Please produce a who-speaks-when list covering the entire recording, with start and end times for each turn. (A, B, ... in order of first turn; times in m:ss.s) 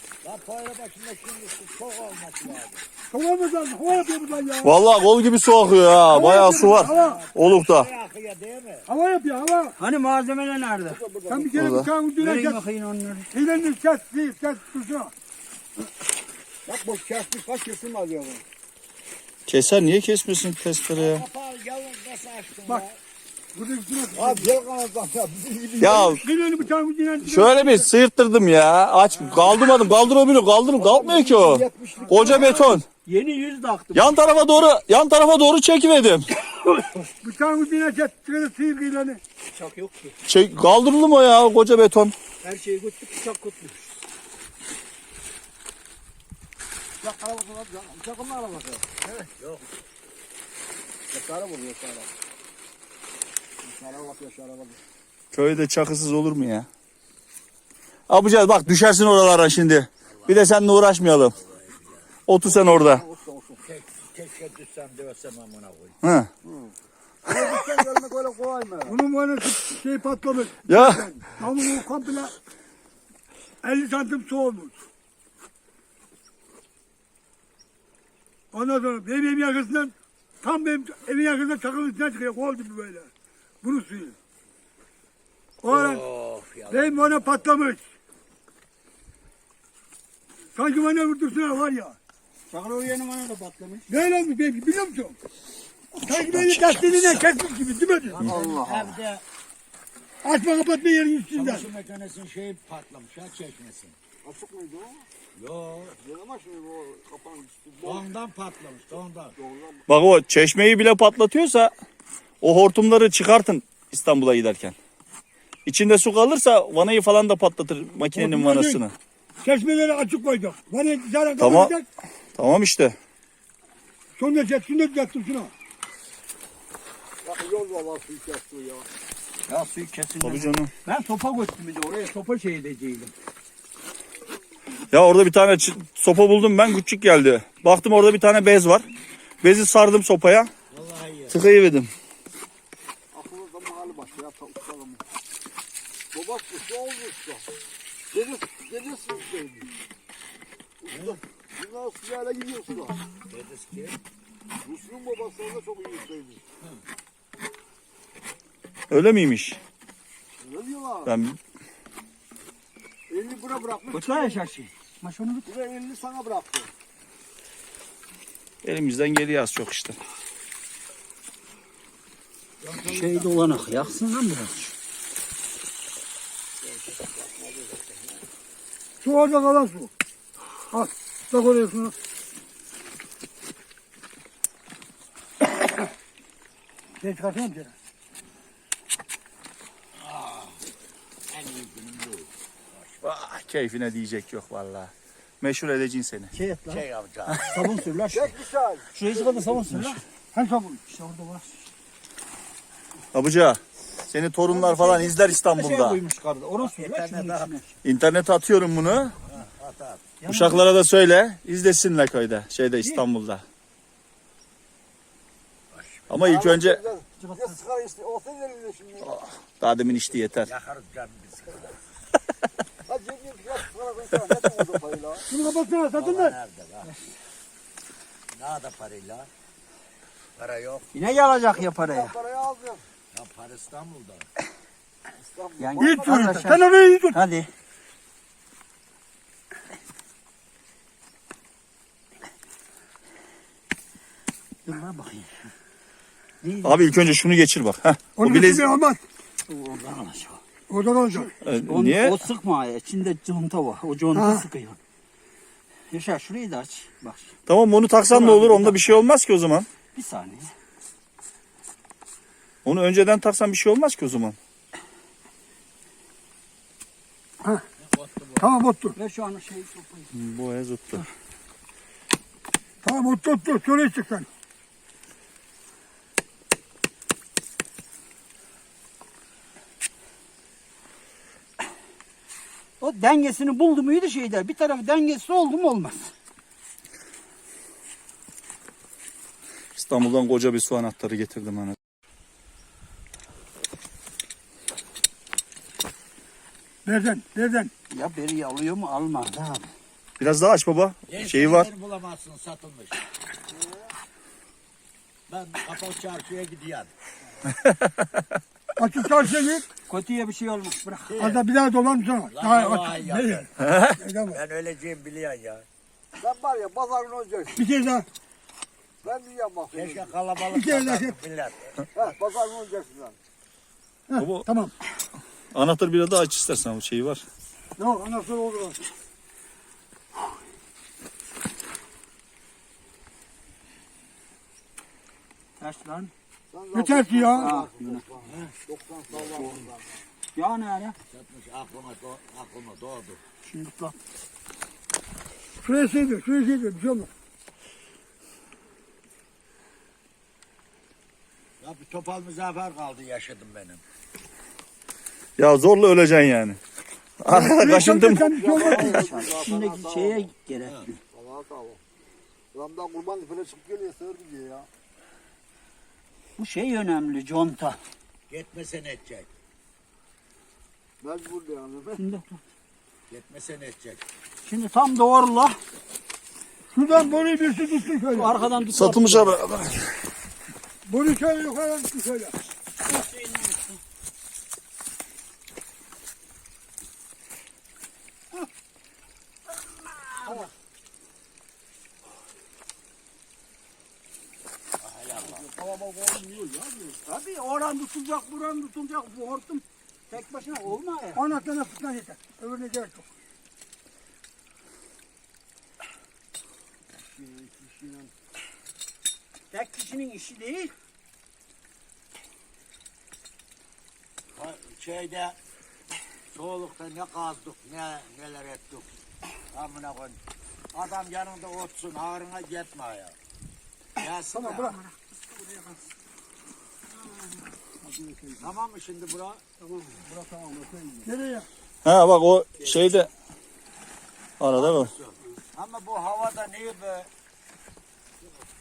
0:00.2-0:02.8 A
0:03.1-0:04.7 B
0:04.6-0:07.9 C
0:06.1-0:07.2 B
0:06.6-0:08.9 A
0:08.9-0:09.8 B
0:09.8-0:11.0 D
0:10.8-0:11.7 E
0:11.2-0:12.6 B
0:11.6-0:11.9 C
0:12.2-0:13.3 D
0:13.3-0:15.1 B
0:16.6-0:18.4 E
0:19.5-0:21.2 C
0:20.9-0:23.0 A
0:23.5-0:24.5 B
0:24.1-0:26.2 E
0:25.8-0:26.2 C
0:25.9-0:27.9 B
0:27.2-0:32.8 C
0:30.8-0:32.8 E
0:32.0-0:32.7 B
0:33.0-0:34.1 D
0:33.9-0:36.3 C
0:36.6-0:37.0 D
0:37.2-0:39.2 B
0:39.5-0:40.1 D
0:40.2-0:42.1 C
0:42.4-0:43.9 D
0:47.0-0:48.9 E
0:49.0-0:49.6 A
0:51.1-0:52.1 E
0:53.6-0:54.8 E
0:55.3-0:56.7 C
0:58.1-1:01.3 C
1:00.1-1:00.5 A
1:01.2-1:02.1 A
1:02.3-1:03.0 C
1:02.4-1:03.6 E
1:03.6-1:06.0 A
1:06.0-1:06.3 C
1:06.4-1:06.7 E
1:07.2-1:09.0 E
1:08.8-1:12.3 B
1:10.7-1:11.1 C
1:13.6-1:14.8 B
1:18.5-1:23.1 B
1:23.6-1:24.2 B
1:25.6-1:26.0 B
1:25.7-1:27.4 A
1:26.7-1:27.9 B
1:30.5-1:32.0 B
1:32.5-1:33.9 D
1:33.9-1:35.2 B
1:36.0-1:37.3 C
1:36.0-1:38.2 B
1:38.1-1:39.2 A
1:38.2-1:38.7 E
1:40.2-1:41.7 B
1:41.3-1:44.0 A
1:44.2-1:45.0 E
1:45.4-1:46.0 A
1:46.0-1:48.0 E
1:47.8-1:49.4 A
1:49.4-1:49.8 E
1:49.9-1:51.7 C
1:52.4-1:54.8 C
1:55.6-1:58.9 C
1:58.1-1:58.8 B
1:59.4-2:01.9 B
2:01.4-2:01.7 C
2:02.4-2:03.0 C
2:04.2-2:05.5 B
2:07.2-2:08.8 E
2:09.5-2:13.1 D
2:10.2-2:10.7 C
2:14.9-2:18.8 C
2:19.4-2:20.5 C
2:20.7-2:21.4 A
2:21.3-2:21.9 C
2:23.1-2:25.0 E
2:26.1-2:27.4 E
2:28.1-2:29.7 E
2:30.8-2:33.0 E
2:30.9-2:31.2 A
2:33.3-2:34.0 A
2:34.6-2:36.4 E
2:38.9-2:39.6 C
2:40.4-2:41.1 E
2:41.0-2:41.4 C
2:43.1-2:44.4 E
2:43.9-2:45.5 D
2:45.5-2:46.7 E
2:48.6-2:50.0 C
2:52.6-2:53.9 A
2:52.8-2:54.7 D
2:56.6-2:58.2 E
2:59.0-2:59.9 B
3:00.7-3:01.9 B
3:07.0-3:07.7 B
3:10.0-3:10.6 A
3:11.3-3:13.0 A
3:13.0-3:16.3 C
3:16.3-3:16.8 D
3:16.7-3:17.5 A
3:17.4-3:18.3 D
3:18.1-3:19.7 E
3:19.0-3:19.9 C
3:19.0-3:20.0 D
3:20.3-3:20.8 B
3:20.9-3:21.7 D
3:23.1-3:26.0 C
3:24.5-3:27.7 D
3:26.6-3:27.6 A
3:27.8-3:29.1 C
3:29.3-3:30.0 A
3:30.2-3:30.6 D
3:30.3-3:33.4 C
3:35.7-3:36.1 A
3:36.1-3:36.8 C
3:36.2-3:39.2 E
3:37.2-3:37.6 D
3:39.0-3:40.5 C
3:40.4-3:41.8 A
3:42.9-3:45.2 E
3:45.3-3:46.4 B
3:45.9-3:46.9 A
3:48.3-3:49.3 A
3:50.4-3:50.9 A
3:50.9-3:52.1 D
3:51.8-3:52.8 E
3:53.1-3:54.3 A
3:55.1-3:56.6 E
3:55.6-3:57.5 D
3:55.8-3:57.2 B
4:04.6-4:05.5 D
4:06.4-4:06.8 D
4:06.6-4:08.7 C
4:08.2-4:09.0 B
4:09.5-4:10.4 D
4:10.7-4:11.3 B
4:11.1-4:14.8 D
4:11.4-4:12.2 C
4:14.1-4:14.4 B
4:15.9-4:17.4 D
4:17.5-4:19.7 C
4:18.1-4:19.0 D
4:19.9-4:20.5 D
4:22.6-4:24.4 C
4:27.8-4:28.6 A
4:28.4-4:29.0 B
4:29.0-4:30.1 D
4:30.1-4:31.0 C
4:32.8-4:34.3 B
4:42.8-4:46.1 D
4:49.7-4:51.8 C
4:56.8-4:57.7 B
4:57.9-4:59.7 D
5:00.2-5:01.7 C
5:01.1-5:03.0 A
5:03.5-5:03.9 E
5:05.3-5:06.9 A
5:07.6-5:08.2 C
5:08.8-5:09.7 B
5:09.9-5:11.1 D
5:11.1-5:11.4 A
5:11.1-5:13.5 B
5:12.3-5:13.5 A
5:13.6-5:14.0 C
5:14.0-5:14.4 B
5:14.3-5:15.6 A
5:16.2-5:17.6 E
5:17.5-5:18.1 B
5:19.0-5:20.1 E
5:19.7-5:21.8 A
5:20.5-5:21.1 B
5:21.9-5:23.2 E
5:24.1-5:24.7 B
5:24.2-5:24.5 C
5:25.5-5:27.2 C
5:27.8-5:28.8 B
5:35.6-5:36.1 D
5:36.5-5:40.0 E
5:36.7-5:37.6 B
5:37.4-5:38.0 D
5:38.2-5:38.5 A
5:39.1-5:39.6 A
5:39.4-5:39.6 D
5:40.4-5:41.0 D
5:41.1-5:43.2 A
5:43.5-5:43.9 D
5:45.6-5:47.1 B
5:51.6-5:53.8 A
5:55.4-5:56.6 C
5:57.2-5:58.2 C
5:57.3-5:59.1 B
5:57.9-6:00.3 E
5:58.5-6:01.0 D
6:01.1-6:01.8 E
6:02.5-6:04.7 E
6:06.4-6:07.8 D
6:08.3-6:09.3 A
6:11.0-6:12.0 E
6:12.0-6:12.4 D
6:13.1-6:14.0 A
6:14.4-6:15.6 D
6:16.7-6:18.4 B
6:18.1-6:19.4 D
6:18.7-6:19.8 C
6:20.8-6:22.3 B
6:22.8-6:23.8 D
6:34.8-6:35.5 A
6:35.2-6:37.0 E
6:37.0-6:41.2 D
6:41.1-6:43.1 B
6:46.9-6:48.1 E
6:49.5-6:50.7 D
6:54.3-6:55.4 A
6:56.3-6:58.9 A
6:59.5-7:00.2 A
7:00.7-7:03.2 A
7:04.0-7:04.8 A
7:04.3-7:04.8 B
7:07.8-7:08.5 B
7:08.4-7:09.4 A
7:09.6-7:11.1 D
7:11.0-7:11.5 B
7:11.8-7:13.1 C
7:14.4-7:14.9 C
7:14.5-7:17.1 A